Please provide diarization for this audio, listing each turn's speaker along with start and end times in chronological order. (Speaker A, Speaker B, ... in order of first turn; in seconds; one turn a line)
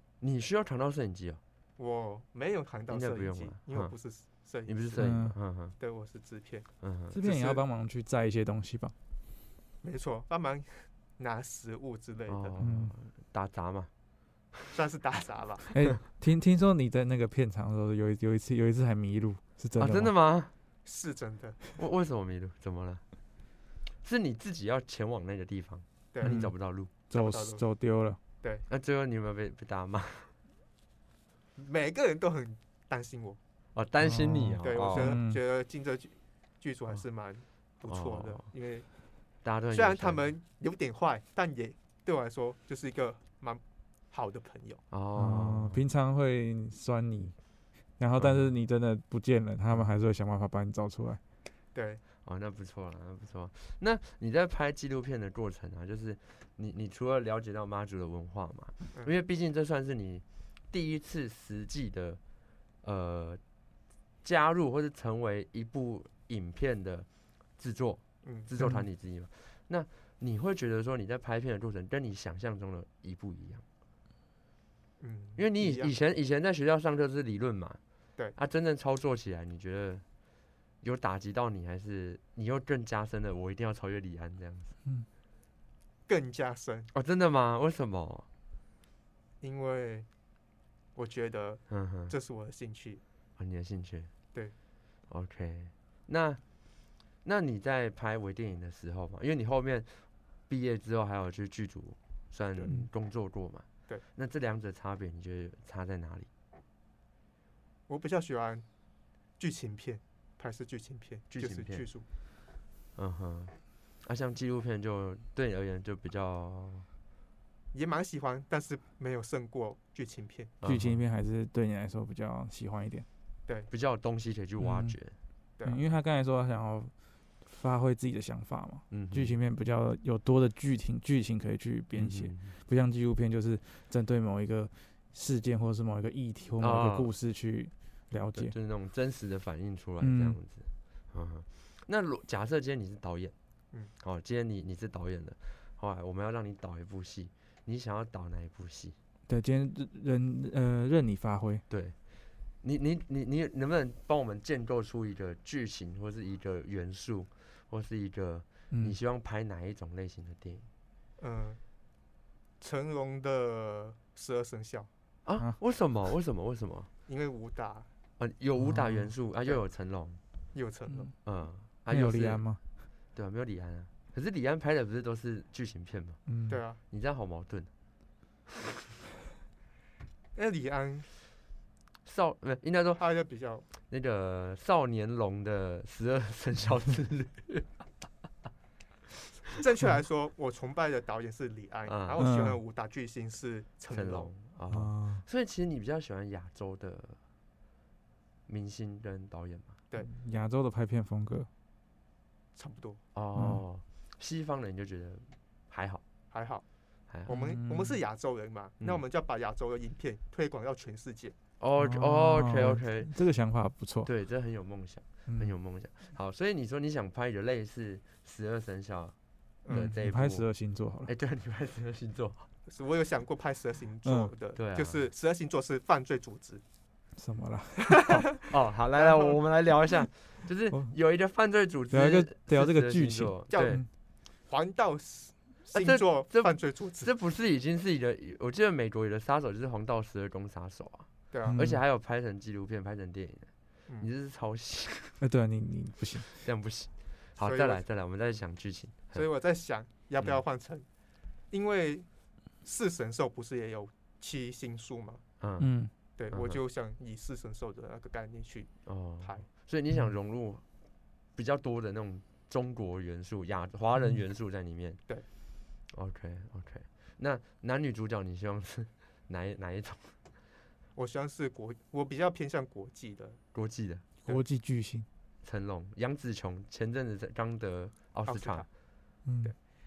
Speaker A: 0.2-1.4
Speaker B: 1.8-4.8
Speaker A: 2.9-3.9
Speaker A: 4.7-5.7
Speaker C: 5.0-5.3
Speaker B: 5.8-7.6
Speaker A: 6.8-7.2
Speaker C: 7.1-8.9
Speaker B: 9.8-12.6
Speaker A: 12.3-13.9
Speaker C: 12.6-12.9
Speaker B: 14.7-15.7
Speaker C: 15.7-20.1
Speaker A: 19.8-20.5
Speaker B: 20.9-21.6
Speaker A: 21.8-23.0
Speaker A: 24.0-26.9
Speaker B: 26.1-27.6
Speaker C: 26.2-26.5
Speaker C: 27.1-28.2
Speaker A: 28.7-30.3
Speaker B: 31.6-33.4
Speaker A: 33.7-35.2
Speaker C: 34.0-35.4
Speaker B: 34.6-38.9
Speaker A: 37.9-38.5
Speaker A: 39.4-40.2
Speaker B: 39.7-44.8
Speaker A: 44.9-45.8
Speaker C: 45.2-47.4
Speaker C: 48.0-51.2
Speaker A: 48.2-48.5
Speaker B: 51.7-52.0
Speaker A: 52.2-62.2
Speaker A: 62.8-63.4
Speaker A: 64.2-73.6
Speaker B: 68.2-68.5
Speaker B: 75.0-75.9
Speaker A: 75.4-77.8
Speaker A: 78.3-80.0
Speaker A: 80.8-84.7
Speaker B: 86.1-86.9
Speaker A: 86.9-88.3
Speaker B: 89.4-90.1
Speaker B: 91.0-93.0
Speaker A: 91.7-92.1
Speaker A: 93.4-94.1
Speaker A: 95.1-96.4
Speaker A: 97.2-106.3
Speaker B: 107.9-108.7
Speaker B: 109.4-112.0
Speaker A: 111.3-111.9
Speaker A: 113.0-116.9
Speaker B: 117.7-120.5
Speaker A: 120.6-121.0
Speaker C: 120.6-123.1
Speaker A: 123.7-125.2
Speaker C: 124.6-125.0
Speaker C: 125.6-126.9
Speaker C: 127.4-138.5
Speaker A: 128.9-129.4
Speaker A: 131.9-132.5
Speaker A: 136.6-137.1
Speaker A: 138.3-143.3
Speaker C: 140.0-140.4
Speaker A: 144.0-149.0
Speaker C: 149.3-151.6
Speaker A: 151.7-160.7
Speaker C: 158.7-159.0
Speaker B: 161.2-161.6
Speaker B: 162.6-164.9
Speaker A: 165.2-166.9
Speaker B: 167.1-167.9
Speaker A: 168.2-170.2
Speaker C: 168.6-169.1
Speaker B: 170.5-171.1
Speaker A: 171.2-172.4
Speaker C: 171.9-172.6
Speaker A: 173.1-176.2
Speaker C: 176.3-176.6
Speaker B: 176.5-176.8
Speaker A: 176.9-177.7
Speaker B: 180.3-181.1
Speaker A: 182.1-183.0
Speaker B: 183.0-183.7
Speaker A: 183.8-187.7
Speaker B: 189.5-194.3
Speaker A: 191.9-192.2
Speaker C: 192.2-192.6
Speaker A: 193.9-197.2
Speaker C: 194.7-195.2
Speaker A: 198.5-199.8
Speaker C: 200.0-201.5
Speaker B: 202.6-203.0
Speaker A: 203.2-206.0
Speaker C: 203.4-203.6
Speaker B: 206.3-206.7
Speaker B: 207.2-211.4
Speaker C: 207.3-208.0
Speaker A: 211.6-213.1
Speaker C: 211.8-214.1
Speaker A: 214.0-219.2
Speaker C: 215.3-215.5
Speaker B: 219.6-219.9
Speaker A: 219.7-220.5
Speaker C: 219.7-221.1
Speaker A: 221.1-222.5
Speaker B: 222.7-226.6
Speaker C: 224.0-224.3
Speaker A: 224.6-225.1
Speaker C: 227.2-228.2
Speaker B: 227.9-228.4
Speaker A: 228.4-233.8
Speaker B: 229.0-229.4
Speaker C: 231.9-233.9
Speaker B: 233.5-233.8
Speaker B: 234.5-237.1
Speaker A: 235.7-245.2
Speaker B: 241.3-241.6
Speaker C: 241.4-241.8
Speaker C: 245.2-246.4
Speaker A: 246.3-249.2
Speaker B: 247.4-247.8
Speaker B: 249.1-250.9
Speaker B: 251.5-252.1
Speaker B: 252.6-255.2
Speaker A: 255.4-255.7
Speaker C: 255.6-255.9
Speaker B: 256.2-259.5
Speaker A: 256.3-256.6
Speaker A: 258.9-260.6
Speaker A: 261.3-265.0
Speaker A: 265.9-270.2
Speaker B: 271.0-273.4
Speaker A: 273.5-274.1
Speaker C: 274.3-275.1
Speaker A: 275.4-278.7
Speaker B: 278.3-278.7
Speaker C: 279.2-279.5